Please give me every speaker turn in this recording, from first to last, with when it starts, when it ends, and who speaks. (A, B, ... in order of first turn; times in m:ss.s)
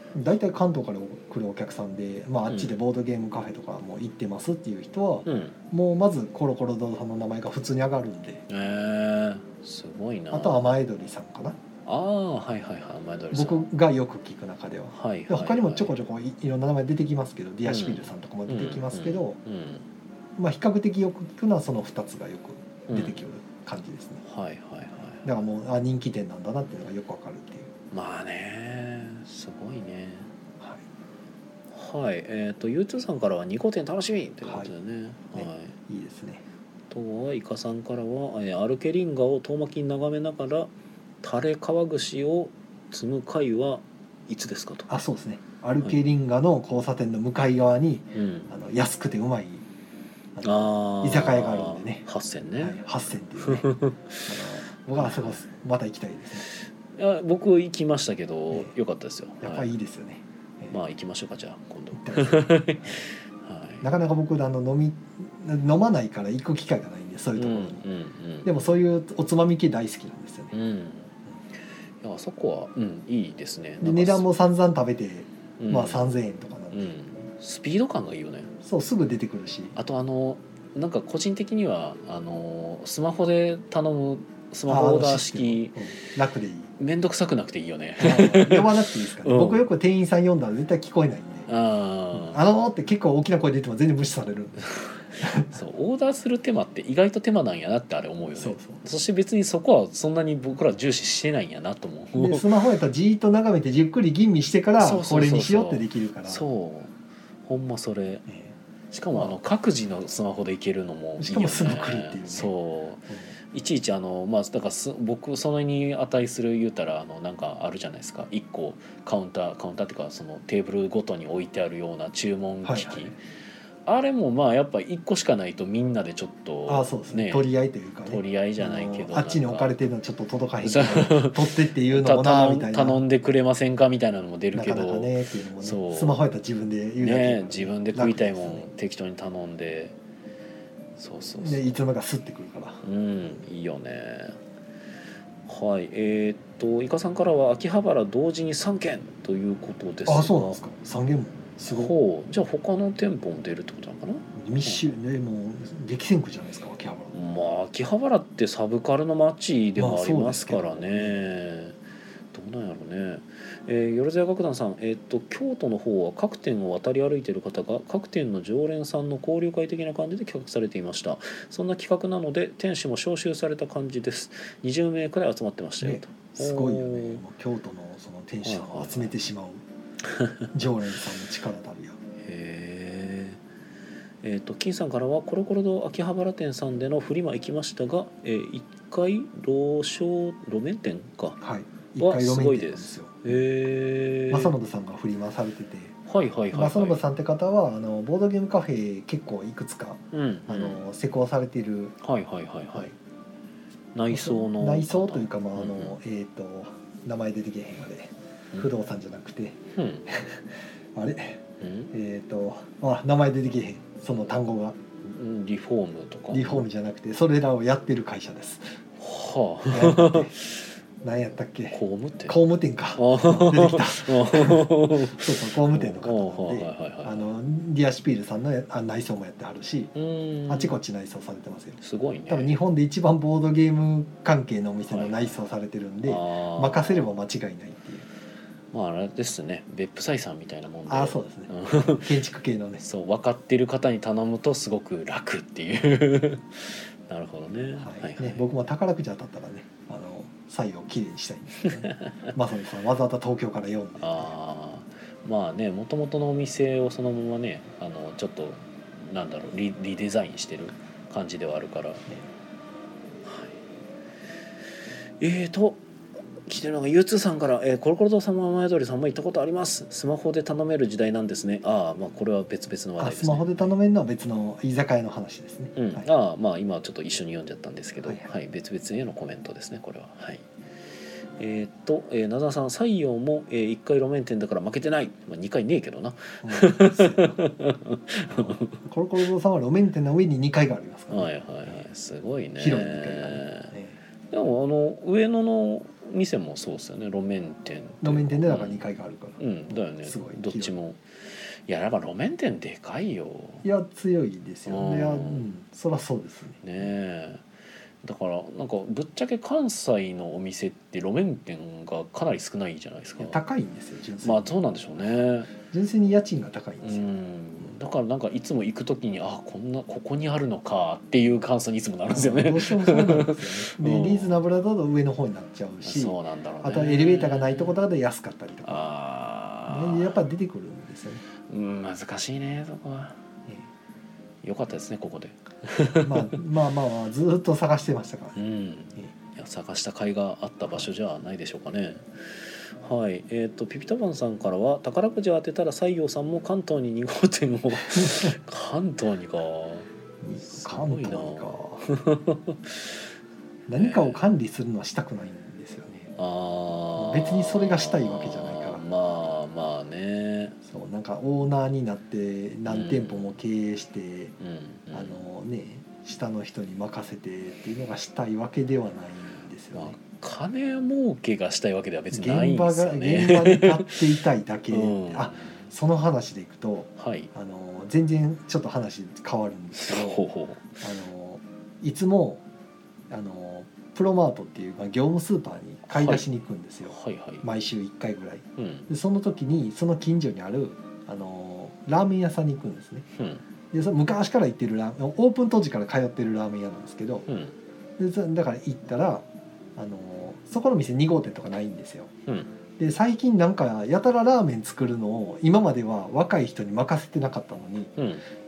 0:00.1-0:08.4 A
0:02.5-0:02.8 B
0:05.3-0:05.6 B
0:08.5-0:10.6 B
0:10.3-0:11.6 A
0:11.9-0:13.6 B
0:13.3-0:19.4 A
0:14.9-0:16.0 B
0:17.7-0:19.8 B
0:20.4-0:24.2 A
0:22.9-0:23.2 B
0:24.2-0:25.2 B
0:25.2-0:27.7 A
0:27.9-0:30.3 B
0:31.7-0:35.8 B
0:34.4-0:34.7 A
0:35.3-0:36.4 A
0:36.9-0:40.7 B
0:41.2-0:44.9 B
0:44.9-0:49.6 A
0:48.2-0:48.5 B
0:50.4-0:52.1 A
0:50.4-0:52.8 B
0:52.6-0:53.7 A
0:53.4-0:54.4 B
0:54.3-0:56.4 A
0:54.9-0:55.4 B
0:57.0-0:59.7 B
0:59.4-1:00.8 A
1:00.7-1:03.9 B
1:02.0-1:03.0 A
1:03.8-1:07.8 A
1:07.4-1:08.5 B
1:08.4-1:10.5 A
1:10.5-1:11.1 B
1:12.0-1:14.3 B
1:13.8-1:16.9 A
1:15.6-1:16.1 B
1:16.7-1:18.5 B
1:18.6-1:19.8 A
1:19.8-1:25.8 B
1:24.7-1:26.7 A
1:26.8-1:29.7 B
1:28.0-1:31.5 A
1:31.5-1:32.4 B
1:32.1-1:35.5 A
1:35.5-1:42.5 B
1:38.4-1:38.8 A
1:42.2-1:46.4 A
1:44.8-1:46.9 B
1:47.4-1:48.3 B
1:48.9-2:03.2 B
1:49.1-1:49.4 A
1:51.2-1:52.5 A
2:02.6-2:03.1 A
2:03.9-2:07.5 B
2:06.7-2:13.0 A
2:08.1-2:09.9 B
2:10.6-2:16.2 B
2:14.5-2:18.7 A
2:17.0-2:20.0 B
2:21.0-2:21.8 B
2:21.4-2:23.4 A
2:22.8-2:24.4 B
2:25.5-2:30.6 B
2:30.1-2:32.0 A
2:31.6-2:34.9 B
2:34.4-2:37.1 A
2:37.1-2:41.8 B
2:39.8-2:41.3 A
2:42.3-2:57.2 B
2:55.8-2:59.6 A
2:58.4-2:59.1 B
3:00.1-3:00.5 B
3:00.5-3:02.0 A
3:02.2-3:03.4 B
3:04.2-3:11.4 B
3:11.4-3:13.4 A
3:12.0-3:14.6 B
3:14.3-3:16.0 A
3:16.1-3:17.0 B
3:16.5-3:22.0 A
3:20.1-3:20.8 B
3:22.0-3:22.9 B
3:24.0-3:26.0 B
3:24.1-3:34.8 A
3:29.8-3:30.0 B
3:31.6-3:31.9 B
3:35.0-3:36.7 B
3:36.3-3:38.8 A
3:39.0-3:40.6 B
3:39.7-3:40.3 A
3:41.0-3:49.9 A
3:41.7-3:42.4 B
3:43.0-3:47.3 B
3:50.0-3:50.8 B
3:50.5-3:58.1 A
3:51.8-3:52.6 B
3:54.9-3:55.4 B
3:56.0-3:57.2 B
3:58.7-4:02.2 B
4:00.9-4:02.8 A
4:02.8-4:08.4 B
4:07.8-4:14.3 A
4:11.9-4:12.3 B
4:14.0-4:22.0 B
4:23.2-4:23.6 B
4:25.2-4:25.8 B
4:26.5-4:33.7 B
4:33.0-4:36.1 A
4:35.8-4:40.4 B
4:41.4-4:48.8 B
4:46.4-4:47.4 A
4:48.3-4:51.9 A
4:51.1-4:53.7 B
4:52.6-4:54.0 A
4:54.3-4:58.8 B
4:58.0-5:00.8 A
4:59.4-5:01.0 B
5:01.7-5:03.6 B
5:03.6-5:06.6 A
5:04.7-5:05.5 B
5:06.6-5:07.4 B
5:08.0-5:13.4 B
5:13.2-5:14.6 A
5:14.2-5:15.5 B
5:15.7-5:17.1 A
5:16.8-5:24.4 B
5:22.1-5:28.9 A
5:25.8-5:27.8 B
5:28.7-5:30.2 B
5:29.7-5:31.2 A
5:31.5-5:33.2 B
5:34.4-5:36.4 B
5:36.0-5:38.4 A
5:38.4-5:49.9 B
5:47.9-5:48.3 A
5:50.2-5:51.8 A
5:50.4-5:52.9 B
5:53.7-5:56.1 A
5:53.8-5:54.3 B
5:56.2-6:00.6 B
5:57.0-5:58.8 A
6:00.6-6:04.4 A
6:02.7-6:03.4 B
6:04.4-6:05.2 B
6:04.9-6:10.0 A
6:09.7-6:14.0 B
6:12.1-6:20.2 A
6:14.7-6:15.7 B
6:17.0-6:17.3 B
6:19.8-6:20.8 B
6:20.8-6:22.4 A
6:23.1-6:33.1 A
6:25.9-6:26.3 B
6:26.9-6:27.4 B
6:28.6-6:28.9 B
6:33.2-6:33.4 B
6:33.7-6:37.3 A
6:37.3-6:37.5 B
6:38.0-6:42.1 A
6:42.3-6:42.5 B
6:42.8-6:47.9 A
6:48.0-6:48.2 B